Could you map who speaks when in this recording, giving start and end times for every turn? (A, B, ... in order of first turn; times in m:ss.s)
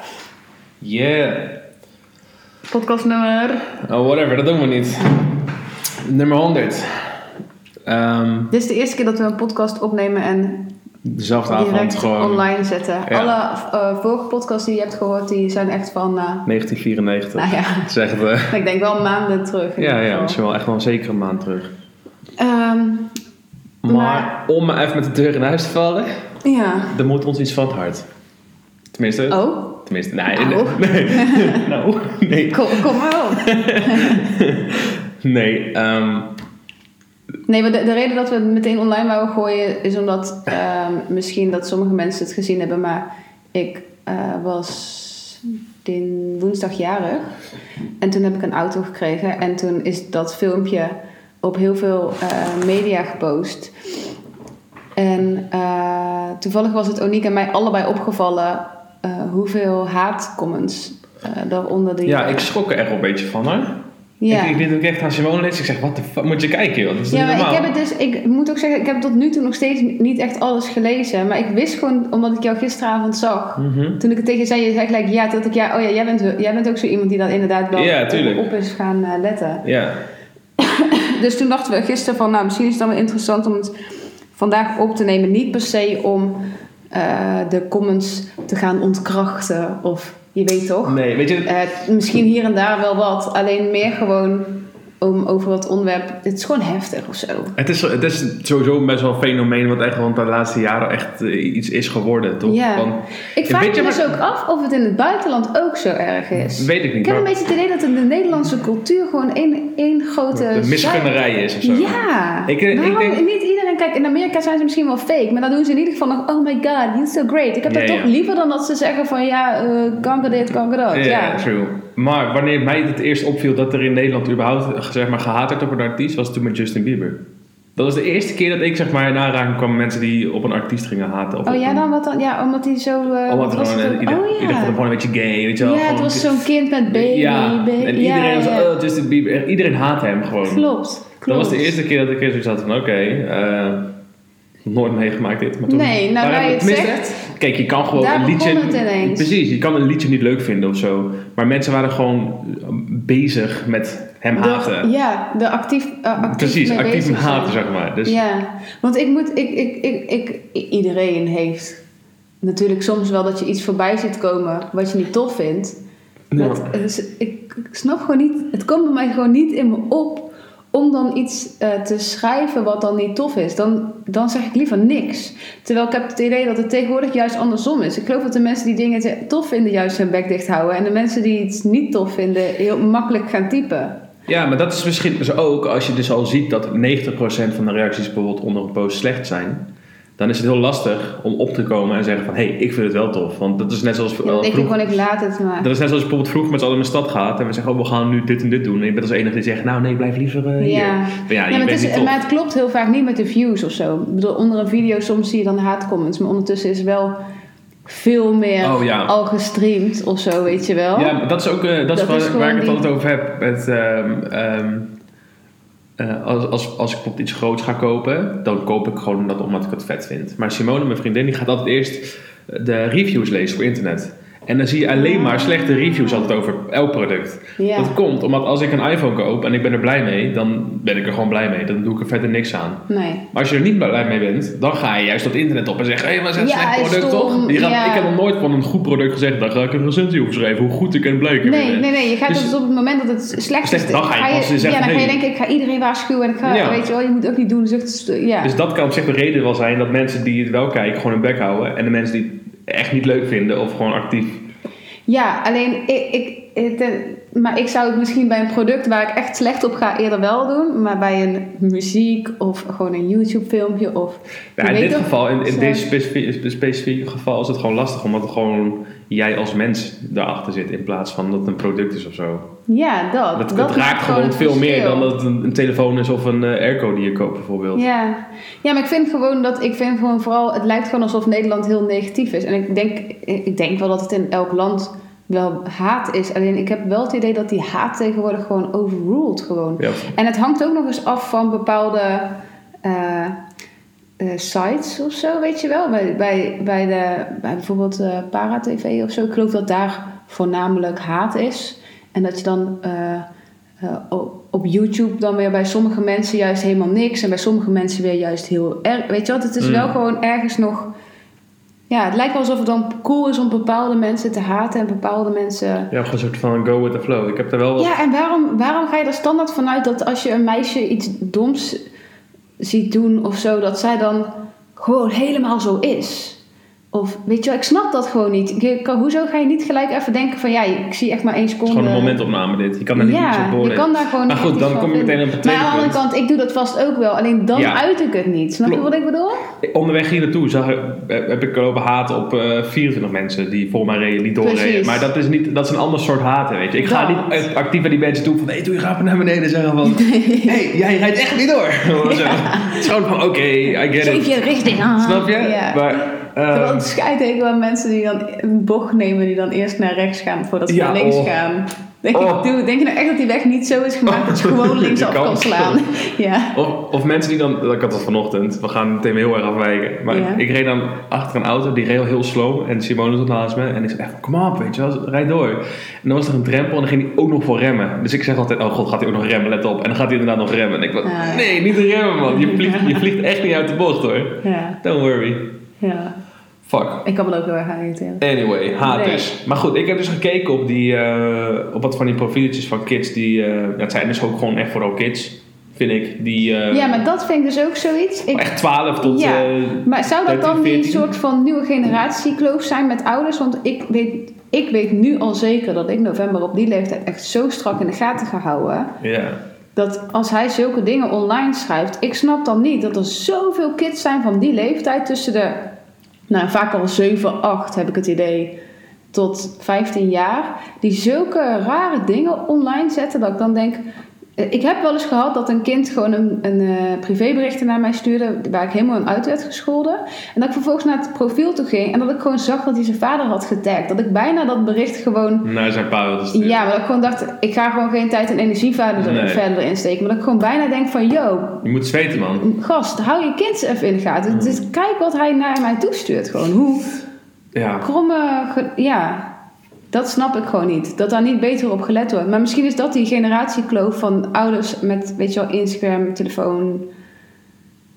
0:00.8-0:01.6 A
0:02.7-0:03.7 B
0:03.7-0:05.5 A
0:06.0-0:07.2 A
0:07.8-0:08.5 A
0:08.5-0:10.7 B
0:11.0-0:12.5 A
0:11.5-0:16.4 B
0:13.1-0:13.3 A
0:16.4-0:18.6 A
0:17.4-0:17.9 B
0:18.4-0:20.4 B
0:19.8-0:21.7 A
0:22.4-0:23.2 B
0:23.8-0:26.1 A
0:23.9-0:24.3 B
0:26.4-0:27.0 B
0:26.9-0:28.1 A
0:28.9-0:36.3 A
0:29.3-0:29.8 B
0:30.3-0:31.6 B
0:32.5-0:34.2 B
0:37.5-0:47.4 B
0:48.0-0:53.7 B
0:55.0-1:02.5 B
1:02.0-1:07.7 A
1:04.2-1:04.6 B
1:07.1-1:19.7 B
1:13.6-1:14.0 A
1:17.7-1:18.5 A
1:19.6-1:20.0 A
1:20.6-1:23.7 B
1:24.3-1:37.6 B
1:30.8-1:31.5 A
1:37.6-1:44.1 A
1:42.4-1:51.1 B
1:46.6-1:47.3 A
1:50.3-1:53.2 A
1:51.6-2:01.4 B
1:57.6-1:58.1 A
2:00.9-2:07.2 A
2:07.8-2:11.8 A
2:11.4-2:14.8 B
2:13.3-2:20.7 A
2:15.6-2:18.7 B
2:20.4-2:21.7 B
2:21.2-2:23.9 A
2:24.6-2:34.9 A
2:25.7-2:27.3 B
2:27.9-2:29.3 B
2:34.3-2:41.8 B
2:36.2-2:38.2 A
2:42.4-2:45.8 B
2:46.3-2:46.7 A
2:46.3-3:04.0 B
3:04.3-3:15.0 A
3:14.2-3:15.7 B
3:15.6-3:22.2 A
3:20.6-3:27.2 B
3:27.8-3:31.1 B
3:28.6-3:29.1 A
3:30.9-3:34.9 A
3:31.9-3:32.8 B
3:36.0-4:02.5 A
3:44.9-3:46.3 B
3:47.6-3:47.9 B
3:52.9-3:53.2 B
3:56.4-3:58.1 B
4:01.4-4:08.5 B
4:03.6-4:05.2 A
4:06.4-4:06.8 A
4:08.4-4:14.4 A
4:15.1-4:25.9 B
4:24.6-4:32.5 A
4:32.7-4:35.1 B
4:33.3-4:37.8 A
4:37.7-4:53.4 B
4:49.8-4:50.1 A
4:54.2-5:03.3 B
5:03.8-5:10.9 B
5:09.6-5:09.9 A
5:11.9-5:15.9 B
5:15.9-5:17.9 A
5:17.8-5:21.8 B
5:22.6-5:26.4 B
5:26.9-5:32.2 B
5:31.6-5:36.0 A
5:32.9-5:39.5 B
5:37.5-5:37.8 A
5:39.6-5:56.9 A
5:44.4-5:45.1 B
5:46.8-5:47.4 B
5:49.8-5:50.6 B
5:52.0-5:52.8 B
5:53.7-6:06.6 B
6:00.7-6:01.4 A
6:02.1-6:02.5 A
6:04.1-6:05.8 A
6:06.5-6:25.6 A
6:10.1-6:10.4 B
6:21.0-6:21.6 B
6:22.3-6:23.0 B
6:24.4-6:24.8 B
6:25.8-6:26.2 B
6:26.6-6:27.0 A
6:27.0-6:28.2 B
6:28.2-6:37.0 A
6:28.8-6:29.3 B
6:36.7-6:49.0 B
6:38.3-6:41.1 A
6:49.0-6:49.4 A
6:49.8-6:55.8 B
6:56.3-6:58.6 B
6:59.1-7:03.8 B
7:04.4-7:15.5 B
7:15.4-7:16.7 A
7:16.3-7:21.6 B
7:19.0-7:19.4 A
7:21.6-7:22.4 A
7:22.3-7:27.0 B
7:24.3-7:24.6 A
7:27.5-7:27.8 A
7:27.8-7:29.3 B
7:29.9-7:36.9 B